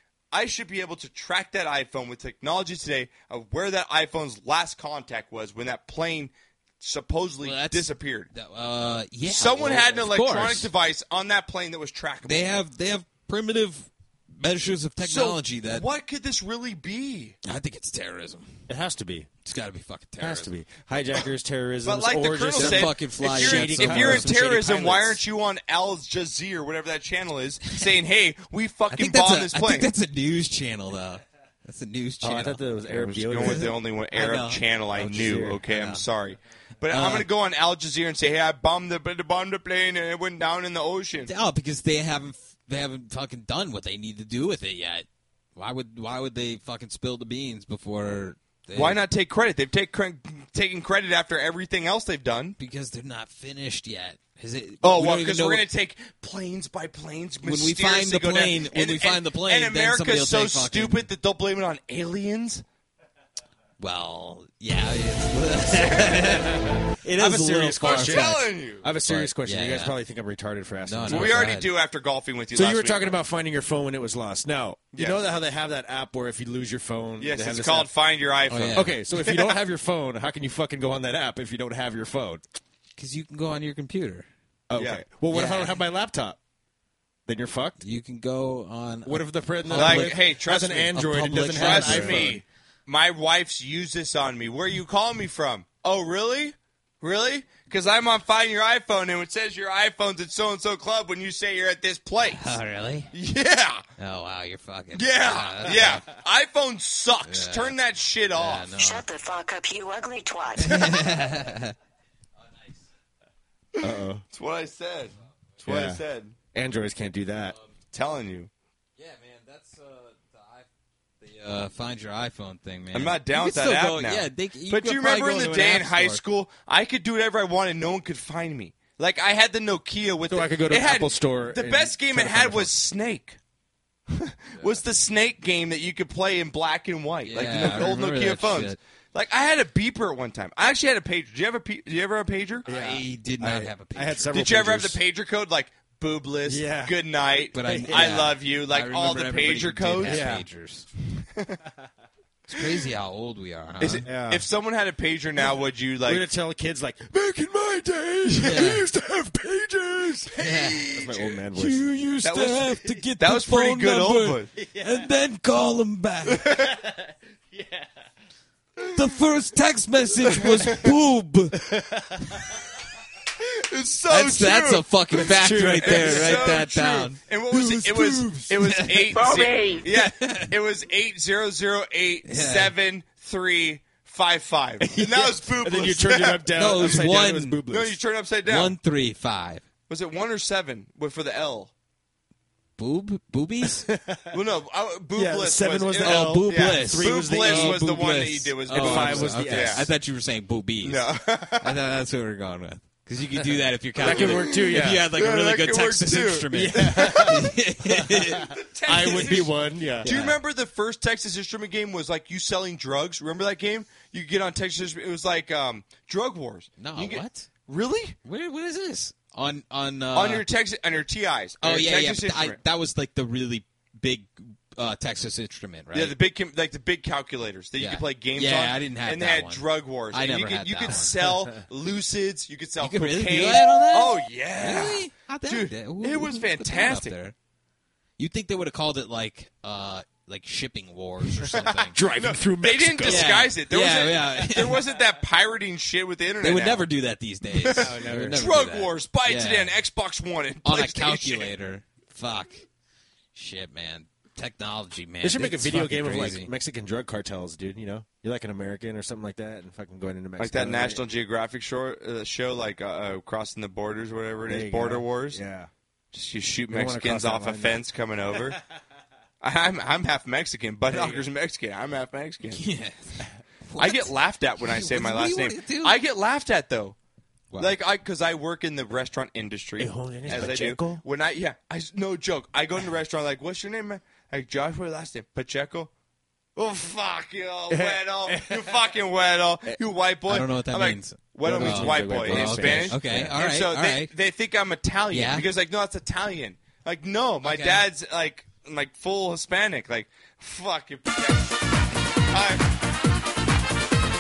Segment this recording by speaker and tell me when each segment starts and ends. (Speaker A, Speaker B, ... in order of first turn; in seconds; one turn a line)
Speaker A: 0.3-8.3
Speaker B: 7.4-10.7
Speaker A: 9.3-12.6
Speaker B: 12.2-15.9
Speaker A: 15.0-17.4
Speaker B: 17.4-18.5
Speaker C: 18.7-19.3
Speaker B: 19.4-20.5
Speaker C: 20.2-24.4
Speaker A: 21.8-29.9
Speaker B: 22.6-25.2
Speaker B: 28.9-32.7
Speaker C: 32.2-33.7
Speaker A: 32.9-41.3
Speaker B: 33.3-36.0
Speaker C: 34.9-35.6
Speaker B: 36.9-37.3
Speaker B: 41.2-49.0
Speaker A: 48.8-52.6
Speaker B: 52.6-55.6
Speaker A: 54.8-62.6
Speaker B: 57.4-61.0
Speaker B: 63.8-68.4
Speaker C: 65.9-71.5
Speaker A: 67.8-68.9
Speaker B: 69.0-70.0
Speaker B: 70.9-71.7
Speaker A: 71.1-73.2
Speaker C: 72.5-77.9
Speaker A: 77.2-79.6
Speaker B: 78.5-79.0
Speaker C: 78.8-82.4
Speaker B: 83.0-84.3
Speaker C: 84.7-86.4
Speaker A: 84.8-85.0
Speaker B: 85.3-85.7
Speaker C: 87.3-87.8
Speaker B: 87.8-90.2
Speaker C: 89.1-92.4
Speaker A: 89.7-102.6
Speaker B: 90.9-92.4
Speaker B: 102.2-103.1
Speaker A: 103.1-103.8
Speaker B: 104.0-106.0
Speaker A: 104.9-108.7
Speaker B: 107.2-107.8
Speaker B: 108.3-109.1
Speaker D: 108.8-110.9
Speaker B: 110.6-111.7
Speaker A: 113.8-116.3
Speaker C: 113.8-114.2
Speaker C: 115.7-116.0
Speaker C: 116.5-117.6
Speaker A: 117.9-118.5
Speaker B: 119.0-120.7
Speaker B: 121.2-126.2
Speaker A: 122.9-133.4
Speaker C: 130.3-132.7
Speaker A: 134.1-142.7
Speaker B: 137.2-138.8
Speaker C: 137.7-137.9
Speaker C: 142.7-145.0
Speaker B: 142.7-144.4
Speaker A: 144.3-150.3
Speaker C: 146.5-147.0
Speaker B: 147.5-150.9
Speaker C: 147.5-148.3
Speaker C: 150.0-150.5
Speaker B: 152.5-154.1
Speaker A: 153.8-156.3
Speaker C: 154.1-154.5
Speaker C: 156.1-161.9
Speaker B: 158.4-158.8
Speaker B: 160.4-160.9
Speaker A: 160.8-161.3
Speaker B: 161.6-166.5
Speaker A: 162.2-164.5
Speaker C: 164.6-165.1
Speaker A: 166.3-166.7
Speaker C: 166.5-167.9
Speaker B: 168.9-171.6
Speaker A: 170.4-170.9
Speaker C: 171.7-172.6
Speaker A: 173.6-187.0
Speaker B: 174.1-177.2
Speaker C: 175.1-176.6
Speaker C: 177.5-178.5
Speaker B: 178.6-180.5
Speaker C: 179.2-179.7
Speaker B: 182.3-182.7
Speaker C: 184.9-188.0
Speaker B: 186.6-187.6
Speaker A: 187.7-188.8
Speaker B: 188.4-189.6
Speaker A: 189.9-191.7
Speaker B: 192.8-193.9
Speaker C: 193.8-194.4
Speaker A: 194.3-199.9
Speaker C: 195.2-197.9
Speaker B: 196.0-201.0
Speaker C: 198.7-199.9
Speaker A: 200.8-201.8
Speaker B: 201.6-209.5
Speaker A: 204.0-207.4
Speaker C: 204.0-205.1
Speaker C: 206.6-210.2
Speaker A: 208.4-218.2
Speaker B: 210.0-210.4
Speaker B: 216.8-217.5
Speaker B: 218.2-220.4
Speaker A: 220.2-222.6
Speaker B: 221.6-226.2
Speaker A: 225.9-237.2
Speaker B: 227.8-231.1
Speaker B: 232.8-237.3
Speaker B: 238.2-241.9
Speaker A: 241.5-246.9
Speaker C: 241.9-243.3
Speaker B: 243.0-244.8
Speaker B: 246.4-249.7
Speaker A: 247.6-251.5
Speaker C: 247.7-248.5
Speaker B: 250.6-252.6
Speaker B: 253.3-256.5
Speaker C: 255.2-261.0
Speaker A: 260.4-265.4
Speaker C: 264.5-265.7
Speaker A: 266.1-268.6
Speaker C: 266.7-267.8
Speaker A: 269.4-272.6
Speaker C: 270.9-271.2
Speaker B: 272.5-276.0
Speaker A: 273.8-277.0
Speaker B: 277.5-277.8
Speaker A: 277.6-285.9
Speaker C: 279.8-281.0
Speaker A: 286.6-301.6
Speaker C: 287.7-288.8
Speaker B: 290.3-294.1
Speaker C: 291.4-293.4
Speaker B: 295.1-295.5
Speaker B: 297.4-297.9
Speaker A: 302.3-302.7